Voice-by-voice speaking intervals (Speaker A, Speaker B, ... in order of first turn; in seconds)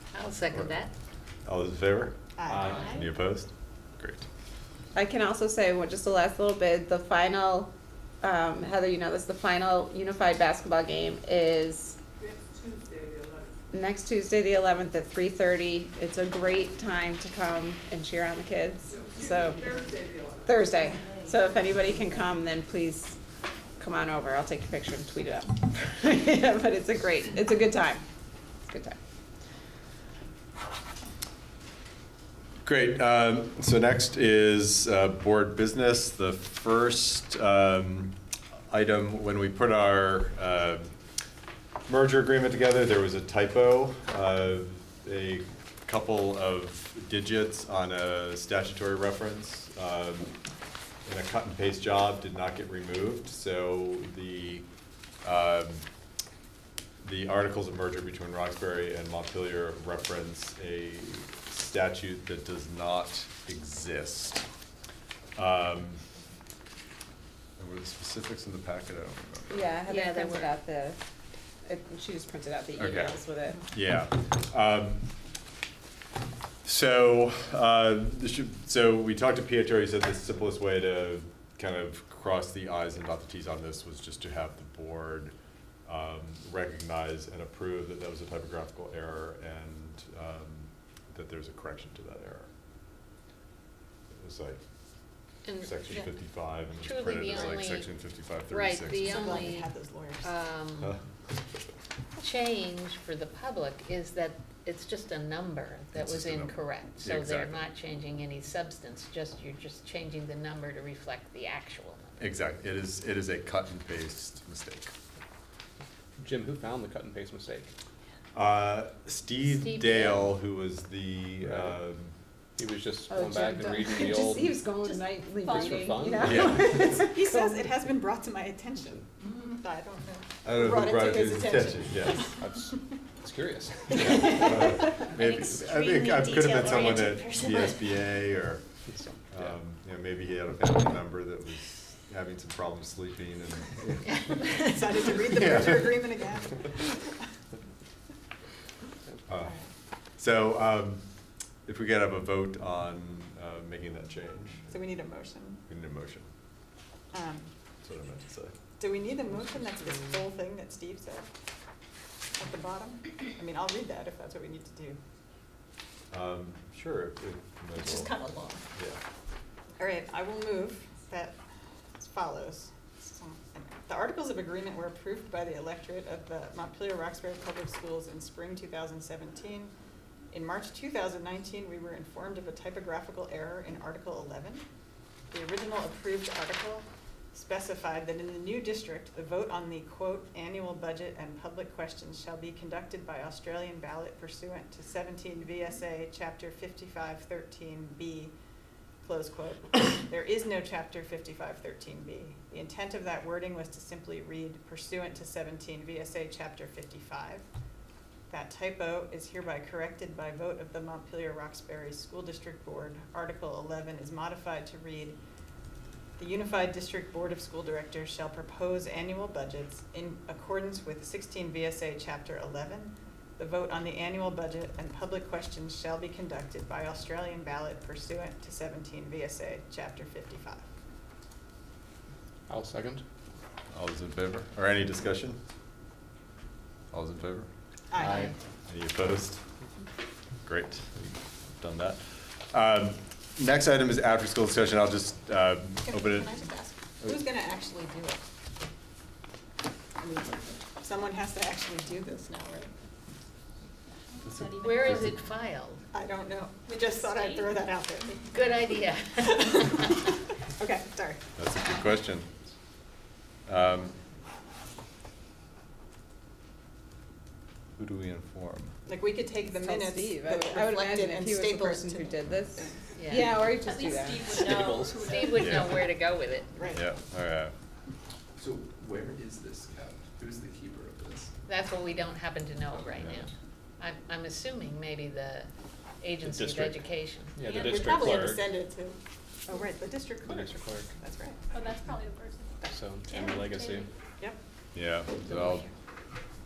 Speaker A: 0.1-0.9, 69.9-70.5, 95.4-96.0, 96.8-97.9, 98.5-99.7, 100.2-100.9, 102.2-112.3, 119.4-120.3, 144.3-144.6, 238.0-238.3, 254.6-255.8, 258.3-260.0, 273.0-273.3, 275.0-276.5, 281.5-287.3, 295.3-295.6
Speaker B: 1.4-4.2, 32.6-38.1, 38.7-40.9, 41.9-50.3, 51.0-54.6, 55.2-55.8, 57.0-64.5, 65.3-66.0, 67.6-69.7, 72.8-75.1, 76.6-85.3, 85.8-92.5, 94.1-94.6, 95.6-99.4, 105.9-107.7, 112.2-114.9, 118.3-122.1, 126.2-126.9, 130.4-132.3, 134.2-138.6, 139.3-144.3, 145.3-146.0, 149.3-149.6, 150.1-151.1, 151.6-154.8, 155.7-156.3, 157.8-158.5, 166.1-168.2, 233.7-235.4, 236.9-237.5, 238.7-239.4, 240.4-246.4, 261.4-262.3, 263.5-263.9, 267.8-268.7, 276.7-277.5, 294.7-295.7
Speaker C: 2.4-3.0, 99.0-100.3, 126.9-132.3, 144.6-146.7, 154.7-155.6, 157.1-157.5, 158.8-161.3, 162.4-165.0, 169.8-171.4, 172.0-179.7, 180.3-184.6, 185.3-198.3, 199.0-207.4, 208.3-215.2, 216.2-230.6, 237.9-238.3, 245.8-248.2, 250.0-252.7, 255.9-258.6, 259.2-261.2, 268.9-272.7, 276.6-276.8, 287.4-291.4
Speaker D: 2.5-3.0, 116.2-117.7, 121.4-121.8, 122.6-124.5, 125.4-126.6, 132.4-135.7, 138.9-139.6, 232.5-233.0, 237.9-238.3, 274.3-275.7, 286.2-288.5, 290.2-290.9, 292.6-293.9
Speaker E: 4.9-7.7, 8.2-12.0, 13.7-19.7, 20.4-23.2, 23.8-28.0, 28.6-29.0, 69.5-71.0, 71.7-73.7, 123.1-127.6, 269.5-274.3
Speaker F: 124.8-125.7, 254.1-255.1, 256.6-257.5, 273.6-275.9, 287.5-288.2, 291.5-293.9
Speaker G: 278.5-281.1